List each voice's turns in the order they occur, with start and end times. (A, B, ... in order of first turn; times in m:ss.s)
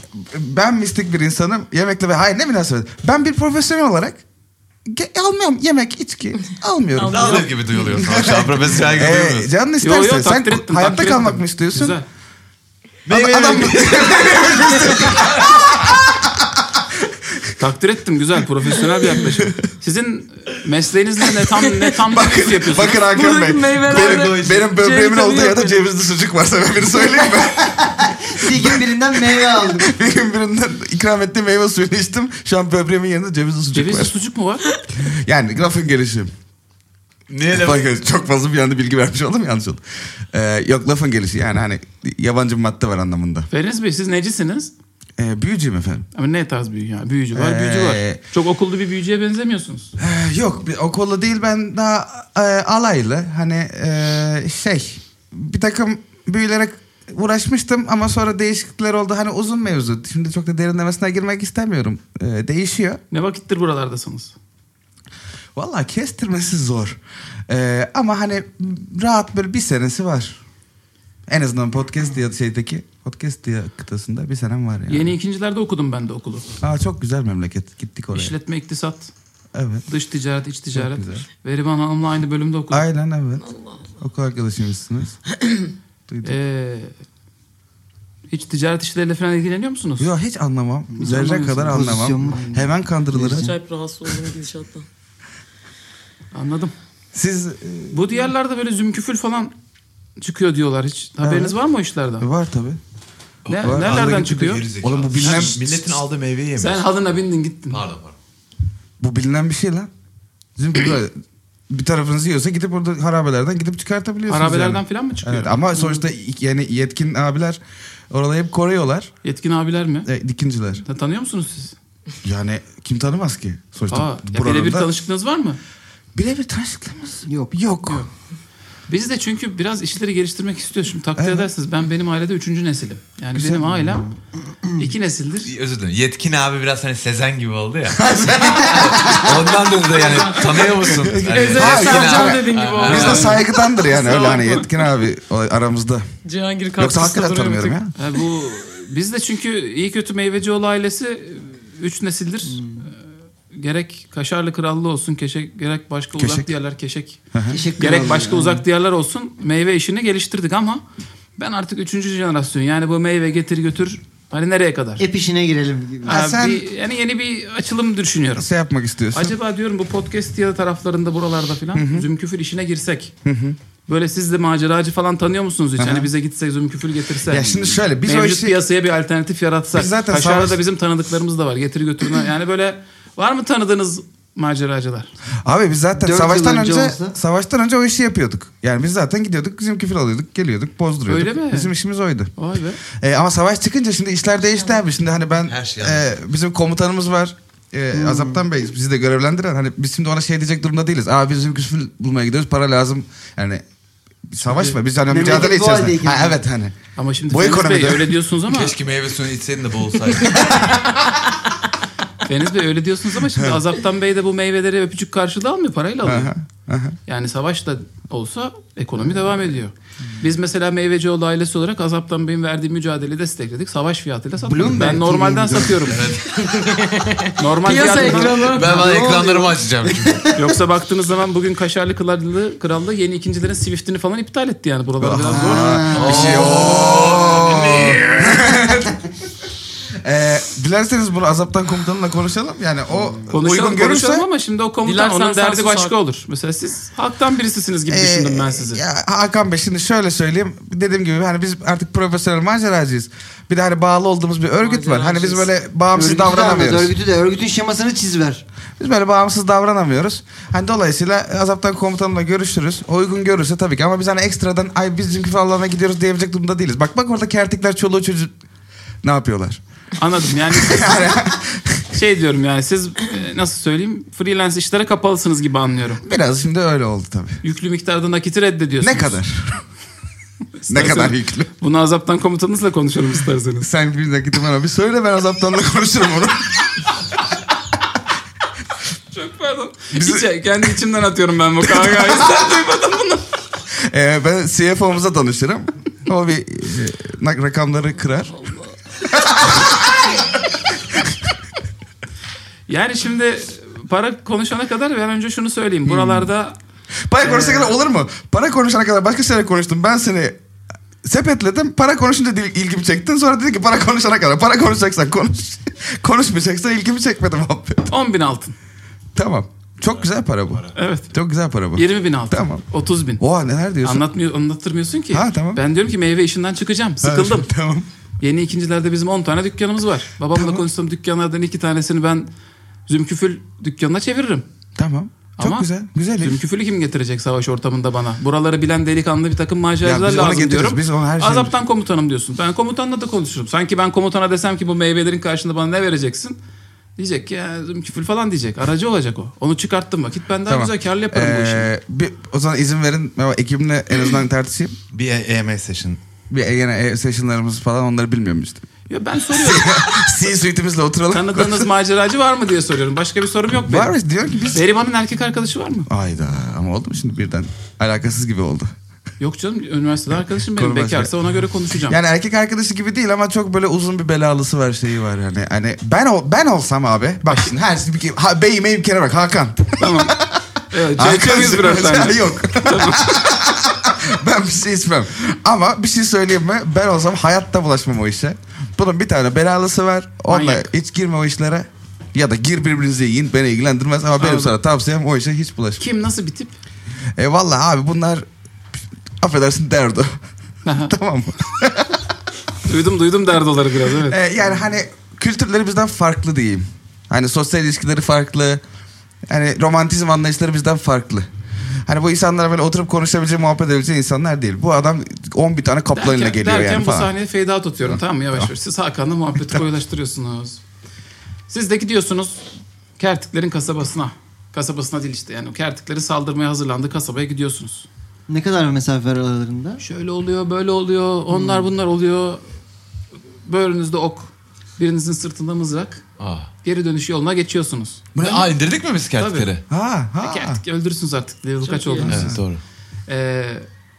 0:00.1-0:04.2 A
0:04.8-0:12.0 A
0:07.0-0:07.8 B
0:07.0-0:09.5 C
0:09.8-0:12.0 D
0:13.0-0:15.5 C
0:13.1-0:17.1 A
0:17.6-0:23.0 D
0:19.2-0:19.5 A
0:22.0-0:34.1 A
0:23.1-0:25.8 B
0:23.8-0:24.6 C
0:27.8-0:29.9 E
0:33.7-0:34.6 D
0:34.9-0:36.3 A
0:37.3-0:37.8 C
0:37.5-0:43.5 A
0:43.5-0:44.7 D
0:45.2-0:46.0 A
0:46.1-0:49.9 D
0:47.3-0:48.2 A
0:50.0-1:03.0 A
1:03.1-1:04.3 D
1:05.6-1:10.4 A
1:11.3-1:15.1 A
1:14.9-1:16.5 D
1:16.6-1:18.3 A
1:18.1-1:19.1 D
1:19.5-1:19.9 A
1:19.9-1:22.8 D
1:20.7-1:21.2 A
1:22.7-1:23.5 A
1:23.4-1:23.8 B
1:24.0-1:25.2 A
1:26.1-1:26.4 A
1:26.2-1:26.9 D
1:28.3-1:30.1 D
1:30.0-1:33.5 A
1:31.0-1:32.5 E
1:31.0-1:32.6 D
1:33.1-1:33.5 E
1:33.2-1:34.8 B
1:36.3-1:36.7 D
1:37.1-1:38.1 A
1:37.9-1:39.5 D
1:40.2-1:42.3 D
1:41.2-1:41.6 A
1:42.2-1:42.8 A
1:43.4-1:46.8 C
1:43.5-1:44.6 D
1:43.6-1:46.0 A
1:46.6-1:47.8 D
1:47.7-1:48.2 C
1:49.0-1:49.9 A
1:50.6-1:51.1 A
1:51.7-1:59.1 A
1:54.3-1:56.0 D
1:59.2-2:00.1 D
2:00.0-2:00.8 A
2:00.8-2:01.8 D
2:02.2-2:04.9 A
2:03.9-2:05.6 D
2:06.1-2:08.0 A
2:07.2-2:07.5 E
2:08.9-2:14.0 D
2:11.2-2:11.5 A
2:13.3-2:14.0 A
2:14.8-2:15.5 D
2:15.4-2:23.4 C
2:17.9-2:19.3 A
2:20.0-2:20.4 B
2:20.6-2:26.0 A
2:21.3-2:23.4 B
2:22.8-2:24.6 D
2:24.1-2:24.5 B
2:26.2-2:27.8 B
2:26.8-2:27.9 A
2:28.0-2:32.9 D
2:32.4-2:32.8 E
2:33.5-2:37.2 D
2:36.2-2:36.5 A
2:37.3-2:37.6 A
2:37.5-2:38.6 E
2:37.8-2:40.8 D
2:41.4-2:45.0 D
2:45.0-2:46.2 E
2:46.0-2:46.6 A
2:46.0-2:48.5 D
2:48.4-2:49.3 A
2:49.1-2:53.1 D
2:51.7-2:52.1 A
2:53.2-2:53.6 A
2:53.9-3:05.1 D
2:55.8-2:56.1 A
2:57.3-2:58.6 A
2:59.7-3:00.6 A
3:05.4-3:12.3 A
3:06.0-3:07.1 E
3:11.1-3:11.7 D
3:12.4-3:12.8 D
3:12.9-3:23.6 A
3:15.5-3:16.0 C
3:17.9-3:18.4 E
3:24.3-3:26.8 A
3:24.4-3:24.8 D
3:25.1-3:26.4 E
3:27.0-3:28.7 D
3:27.3-3:28.1 A
3:28.5-3:30.8 C
3:32.2-3:36.3 D
3:33.3-3:33.6 A
3:36.0-3:37.0 A
3:37.1-3:46.1 D
3:44.4-3:46.0 E
3:45.9-3:46.8 C
3:46.4-3:48.9 B
3:47.4-3:48.5 D
3:48.0-3:50.5 E
3:48.0-3:50.2 C
3:50.3-3:55.8 D
3:55.0-3:59.0 A
3:55.3-3:56.6 E
3:55.9-3:58.4 C
4:00.0-4:04.2 A
4:02.9-4:03.3 E
4:03.3-4:08.8 D
4:04.8-4:05.9 B
4:07.9-4:16.9 A
4:14.6-4:15.5 B
4:15.9-4:18.4 E
4:18.8-4:28.3 A
4:29.0-4:29.6 A
4:30.0-4:31.1 D
4:30.5-4:31.8 A
4:31.9-4:36.0 D
4:36.0-4:37.4 A
4:37.4-4:39.2 D
4:38.8-4:39.6 A
4:40.6-4:43.7 D
4:40.7-4:41.5 A
4:43.6-4:46.6 A
4:49.1-4:53.3 D
4:49.9-4:50.3 A
4:51.6-4:52.5 A
4:53.8-4:58.5 A
4:59.0-5:00.4 A
5:02.7-5:06.6 D
5:05.8-5:06.3 A
5:07.1-5:10.4 A
5:07.2-5:07.8 D
5:11.0-5:17.9 A
5:17.9-5:18.6 D
5:19.1-5:22.6 A
5:20.8-5:21.1 D
5:21.7-5:23.2 D
5:23.2-5:24.1 A
5:23.8-5:27.5 D
5:25.1-5:25.6 A
5:27.0-5:27.9 A
5:28.2-5:32.3 D
5:30.3-5:30.6 A
5:32.9-5:34.4 D
5:34.8-5:36.4 A
5:35.4-5:35.7 D
5:36.2-5:46.4 D
5:39.8-5:41.6 A
5:47.0-5:51.7 D
5:50.4-5:54.8 A
5:54.9-5:56.0 C
5:56.3-5:58.6 A
5:58.9-6:00.2 D
5:59.3-6:01.7 A
6:01.1-6:03.9 D
6:03.6-6:04.6 A
6:04.5-6:05.9 D
6:05.9-6:08.7 A
6:09.2-6:12.0 D
6:10.5-6:11.1 A
6:11.8-6:35.8 A
6:19.8-6:20.1 D
6:20.7-6:23.2 D
6:30.3-6:30.7 D
6:34.2-6:34.5 D
6:35.8-6:36.5 D
6:37.2-6:38.2 A
6:39.2-6:40.2 A
6:40.6-6:40.9 D
6:40.8-6:42.0 A
6:42.6-6:44.2 D
6:44.0-6:48.6 A
6:49.3-6:51.3 A
6:51.9-6:57.1 A
6:55.9-7:00.6 D
6:57.8-6:58.5 A
7:01.5-7:02.4 D
7:03.0-7:07.9 D
7:08.3-7:09.8 E
7:09.8-7:12.4 D
7:11.3-7:11.7 E
7:13.4-7:16.0 D
7:16.2-7:16.5 C
7:16.6-7:18.0 D
7:18.1-7:18.5 A
7:18.2-7:19.6 C
7:19.2-7:19.5 D
7:19.7-7:20.6 A
7:20.2-7:22.4 D
7:21.7-7:22.1 B
7:22.0-7:22.4 A
7:22.0-7:22.6 C
7:23.1-7:23.7 D